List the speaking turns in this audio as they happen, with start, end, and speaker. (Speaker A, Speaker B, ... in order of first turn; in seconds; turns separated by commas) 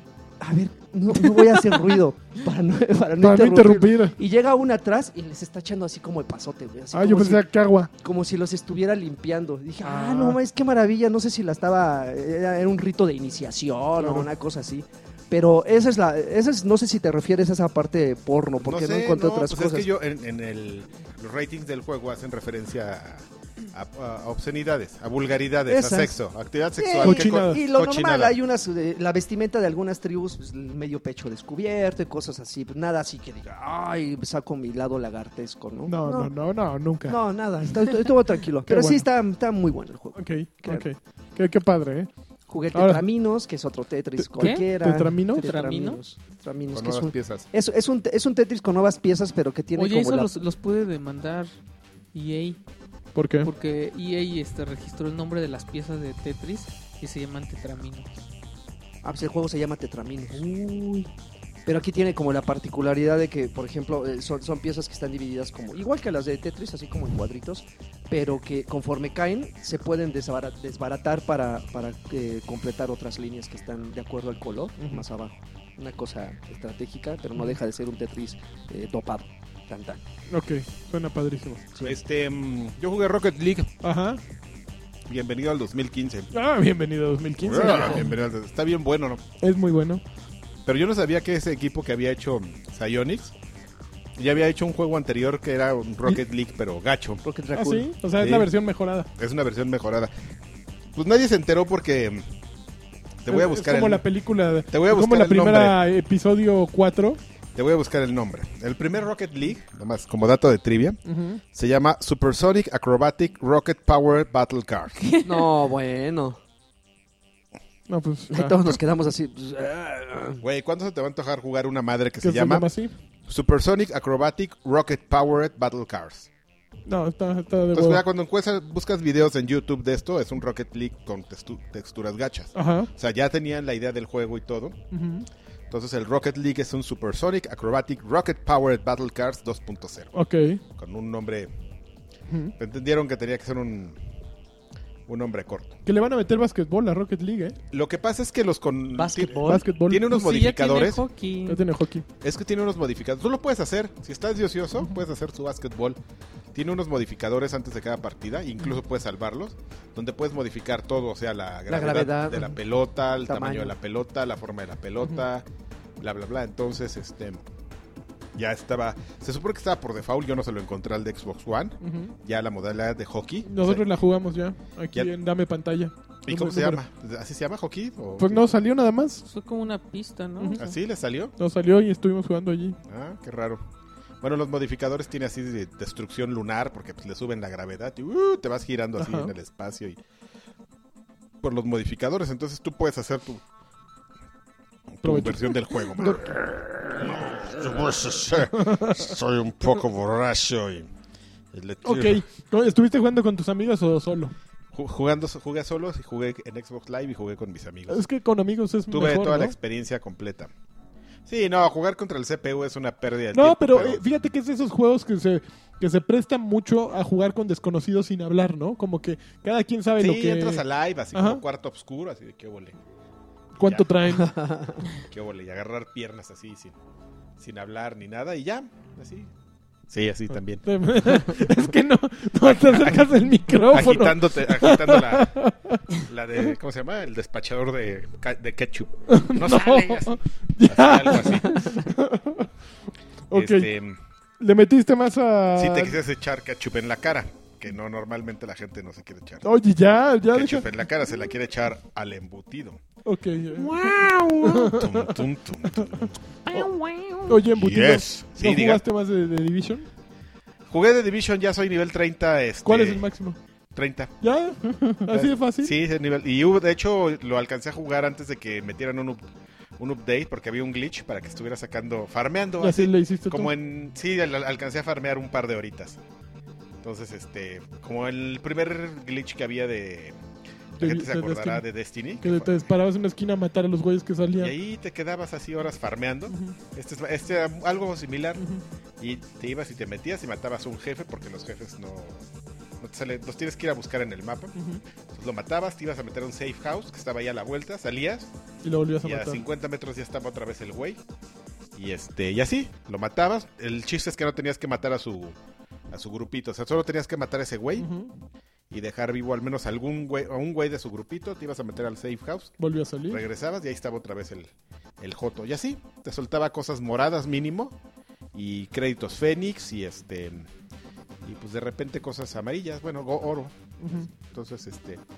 Speaker A: 0.4-19.9, Speaker B: 3.2-4.1, Speaker B: 6.9-7.9, Speaker B: 9.8-10.4, Speaker B: 14.0-14.3, Speaker C: 18.6-28.4, Speaker A: 25.7-26.1, Speaker A: 26.8-36.3, Speaker B: 27.0-27.6, Speaker B: 35.9-37.2, Speaker A: 37.1-40.9, Speaker B: 38.6-39.0, Speaker B: 40.1-42.1, Speaker A: 42.5-50.3, Speaker B: 42.7-43.0, Speaker B: 44.2-45.5, Speaker D: 44.4-44.7, Speaker D: 45.4-46.0, Speaker C: 46.7-47.5, Speaker D: 49.7-51.5, Speaker D: 52.1-52.6, Speaker B: 53.1-53.5, Speaker D: 53.4-58.2, Speaker A: 59.0-61.1, Speaker A: 61.6-80.0, Speaker B: 74.8-75.0, Speaker B: 80.3-81.6, Speaker C: 81.8-83.7, Speaker B: 83.8-84.2, Speaker C: 85.1-86.3, Speaker B: 86.3-88.1, Speaker C: 87.4-89.2, Speaker B: 89.4-90.0, Speaker C: 90.6-93.3, Speaker C: 94.2-97.2, Speaker A: 97.2-97.9, Speaker B: 97.5-99.1, Speaker C: 98.2-98.5, Speaker C: 99.2-100.1, Speaker C: 100.9-102.2, Speaker C: 103.2-104.0, Speaker B: 103.3-107.2, Speaker C: 104.7-105.8, Speaker C: 107.5-111.0, Speaker B: 111.0-111.4, Speaker C: 111.5-115.0, Speaker D: 115.0-115.5, Speaker A: 115.2-116.4, Speaker B: 117.9-118.6, Speaker A: 118.3-120.4, Speaker C: 120.4-122.7, Speaker B: 122.2-122.9, Speaker C: 123.3-126.3, Speaker B: 126.9-128.0, Speaker C: 127.7-134.8, Speaker B: 132.5-132.9, Speaker B: 134.9-135.3, Speaker C: 135.7-140.1, Speaker B: 140.1-140.6, Speaker C: 140.8-141.5, Speaker B: 142.3-142.5, Speaker C: 142.6-144.0, Speaker C: 145.1-145.8, Speaker B: 145.8-147.6, Speaker C: 147.7-151.0, Speaker A: 148.9-149.7, Speaker B: 149.5-150.1, Speaker D: 150.0-151.6, Speaker B: 151.5-152.1, Speaker C: 152.2-156.0, Speaker C: 156.5-165.4, Speaker A: 161.7-162.6, Speaker A: 163.2-163.7, Speaker C: 166.0-167.4, Speaker C: 168.3-173.9, Speaker B: 171.8-172.1, Speaker B: 173.4-176.8, Speaker C: 176.2-178.4, Speaker B: 178.2-179.2, Speaker D: 179.2-180.7, Speaker C: 180.6-181.3, Speaker B: 181.4-182.8, Speaker C: 182.9-183.6, Speaker C: 184.2-190.0, Speaker B: 189.0-189.3, Speaker C: 191.4-193.4, Speaker C: 194.9-200.9, Speaker B: 195.0-196.4, Speaker B: 198.5-199.1, Speaker C: 201.5-202.2, Speaker B: 201.8-204.3, Speaker C: 204.7-208.1, Speaker B: 207.9-209.5, Speaker C: 208.9-210.5, Speaker C: 211.2-214.1, Speaker B: 213.3-221.4, Speaker C: 220.0-222.8, Speaker B: 223.6-224.3, Speaker C: 223.6-223.9, Speaker A: 224.1-224.8, Speaker C: 225.0-226.7, Speaker C: 227.4-229.3, Speaker C: 229.9-231.4, Speaker B: 230.6-235.9, Speaker C: 232.4-235.4, Speaker C: 235.9-241.9, Speaker B: 239.1-242.5, Speaker B: 243.3-243.7, Speaker C: 243.3-244.0, Speaker B: 244.4-246.0, Speaker C: 245.5-249.4, Speaker B: 249.4-250.7, Speaker C: 250.3-252.8, Speaker B: 253.0-255.2, Speaker C: 253.5-256.8, Speaker D: 256.5-257.2, Speaker B: 257.3-259.9, Speaker C: 257.4-258.8, Speaker C: 260.7-263.1, Speaker B: 262.6-263.4, Speaker C: 263.7-264.1, Speaker B: 264.2-265.7, Speaker C: 265.1-269.2, Speaker C: 269.8-276.0, Speaker B: 272.6-273.5, Speaker C: 276.8-280.2, Speaker C: 280.8-282.5, Speaker B: 280.8-281.6, Speaker B: 282.2-284.5, Speaker C: 284.4-288.4, Speaker B: 286.3-286.6, Speaker B: 288.4-288.6, Speaker C: 289.0-292.2, Speaker C: 292.8-294.5, Speaker B: 294.5-294.8, Speaker C: 295.1-298.3, Speaker B: 298.6-299.4, Speaker C: 299.0-301.0, Speaker C: 301.7-305.4, Speaker C: 305.9-307.9, Speaker B: 307.8-308.1, Speaker C: 308.7-312.5, Speaker B: 312.6-313.2, Speaker C: 313.1-317.7, Speaker C: 318.3-320.5, Speaker C: 321.2-323.5, Speaker B: 323.8-324.1, Speaker C: 324.1-325.0